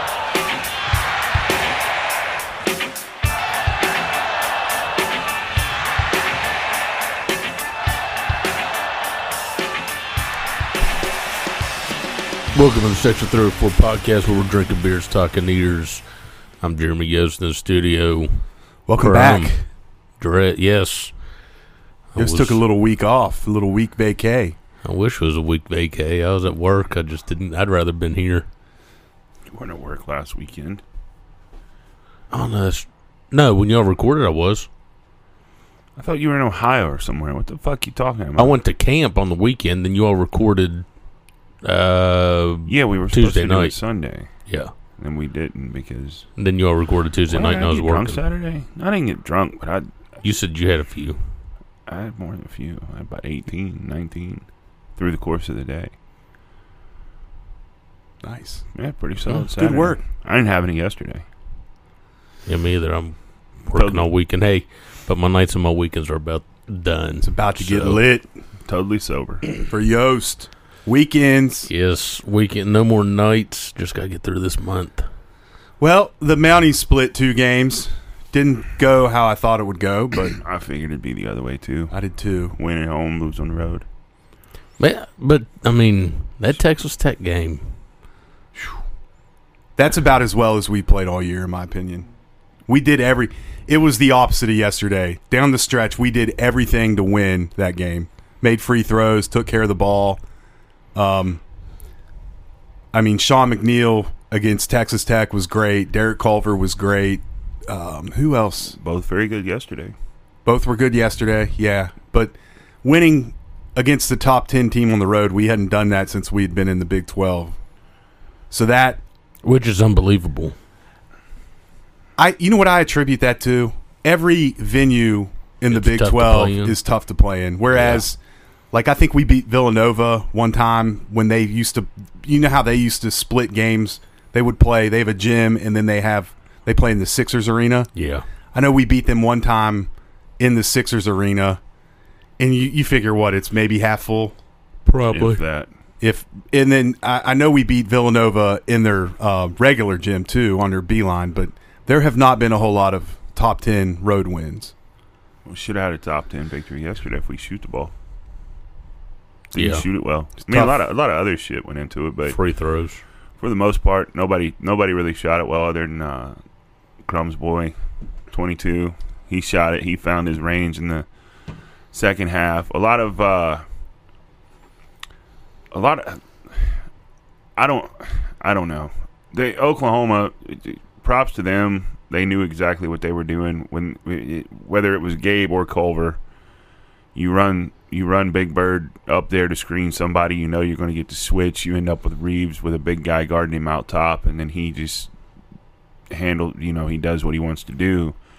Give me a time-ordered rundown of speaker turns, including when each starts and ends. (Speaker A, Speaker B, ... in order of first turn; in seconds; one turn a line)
Speaker A: 12.5-16.0
Speaker A: 16.6-18.4
Speaker B: 18.9-19.6
Speaker A: 19.0-19.6
Speaker A: 20.2-21.1
Speaker A: 22.1-22.6
Speaker B: 22.2-24.6
Speaker A: 24.8-28.4
Speaker C: 29.5-30.8
Speaker A: 32.3-34.7
Speaker C: 36.0-38.6
Speaker A: 38.4-40.9
Speaker A: 41.6-43.8
Speaker C: 42.7-44.3
Speaker C: 45.0-46.2
Speaker A: 46.4-48.2
Speaker C: 47.3-49.9
Speaker A: 50.2-51.2
Speaker C: 51.9-54.5
Speaker C: 55.0-55.9
Speaker B: 58.2-58.6
Speaker C: 58.7-61.2
Speaker B: 59.5-60.0
Speaker A: 62.5-68.0
Speaker C: 63.7-64.1
Speaker B: 67.2-68.3
Speaker C: 68.7-69.4
Speaker B: 69.7-71.7
Speaker A: 71.7-75.0
Speaker B: 75.8-80.4
Speaker C: 80.4-81.9
Speaker B: 81.9-82.6
Speaker C: 82.5-83.8
Speaker A: 84.8-87.6
Speaker B: 89.8-92.1
Speaker B: 92.7-100.2
Speaker B: 100.9-101.4
Speaker B: 102.9-108.7
Speaker C: 108.7-110.0
Speaker B: 110.5-117.5
Speaker B: 118.5-119.0
Speaker A: 119.4-120.5
Speaker B: 122.2-128.2
Speaker A: 125.7-126.8
Speaker A: 127.7-128.0
Speaker B: 128.7-137.9
Speaker A: 137.9-138.2
Speaker B: 138.5-141.6
Speaker B: 142.4-144.3
Speaker A: 144.8-145.4
Speaker C: 145.1-145.7
Speaker B: 146.0-154.7
Speaker C: 155.4-157.9
Speaker C: 159.5-162.4
Speaker A: 159.5-159.8
Speaker B: 160.5-160.8
Speaker A: 162.3-163.0
Speaker C: 163.4-166.4
Speaker C: 167.0-167.8
Speaker C: 168.3-171.1
Speaker C: 171.9-173.6
Speaker C: 175.7-176.8
Speaker C: 177.6-186.2
Speaker C: 187.1-195.1
Speaker C: 196.1-198.2